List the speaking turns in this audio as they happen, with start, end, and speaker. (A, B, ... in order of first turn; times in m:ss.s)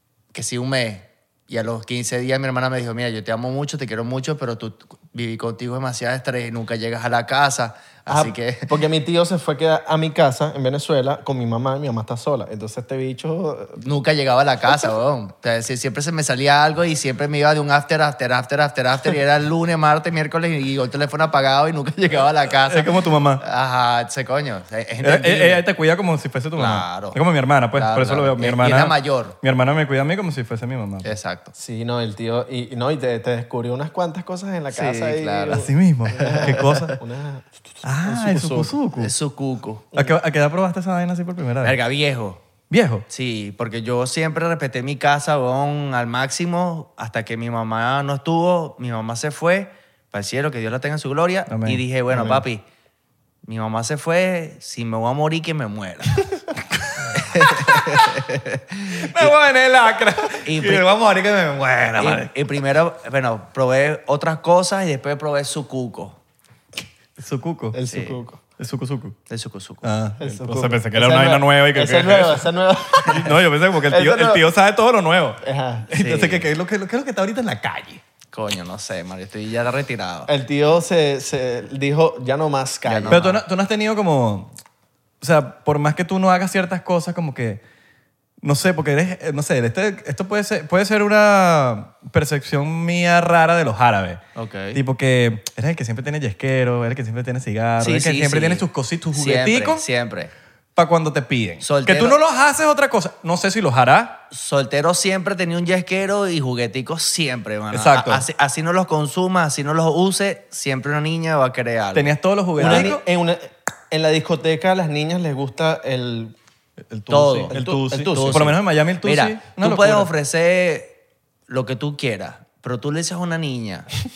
0:00.3-0:08.8 A
0:08.1-0:13.8 B
0:13.8-0:25.6 A
0:22.6-0:23.4 C
0:25.0-0:31.1 C
0:26.6-0:27.2 A
0:27.7-0:29.4 A
0:31.0-0:31.5 A
0:31.5-0:38.7 B
0:34.7-0:35.7 A
0:35.5-0:37.0 C
0:36.2-0:37.0 A
0:37.8-0:39.1 C
0:39.0-0:39.9 A
0:39.9-0:41.8 C
0:41.6-0:42.4 A
0:42.7-0:43.0 C
0:43.1-0:52.6 A
0:51.5-0:51.8 C
0:52.1-0:52.4 B
0:53.4-0:56.3 A
0:57.1-0:59.3 A
0:57.4-0:58.1 C
0:58.9-1:02.3 C
1:00.4-1:01.0 A
1:01.9-1:06.2 A
1:07.2-1:07.8 C
1:07.7-1:08.4 B
1:07.9-1:08.2 A
1:08.6-1:09.2 C
1:09.3-1:09.9 A
1:09.8-1:12.5 C
1:10.2-1:14.4 B
1:13.0-1:18.0 C
1:15.4-1:15.9 B
1:15.9-1:16.5 A
1:18.3-1:20.3 A
1:20.3-1:23.2 B
1:22.8-1:23.4 A
1:23.1-1:24.5 C
1:25.2-1:27.6 C
1:28.4-1:34.2 C
1:34.4-1:34.8 A
1:34.7-1:39.8 C
1:37.8-1:40.3 A
1:40.8-1:44.2 C
1:41.6-1:42.2 A
1:44.3-1:52.9 A
1:47.7-1:48.2 C
1:51.9-1:53.0 C
1:52.6-1:56.3 B
1:56.8-2:00.1 C
1:57.1-2:00.9 A
1:57.5-1:58.5 B
2:01.5-2:03.9 A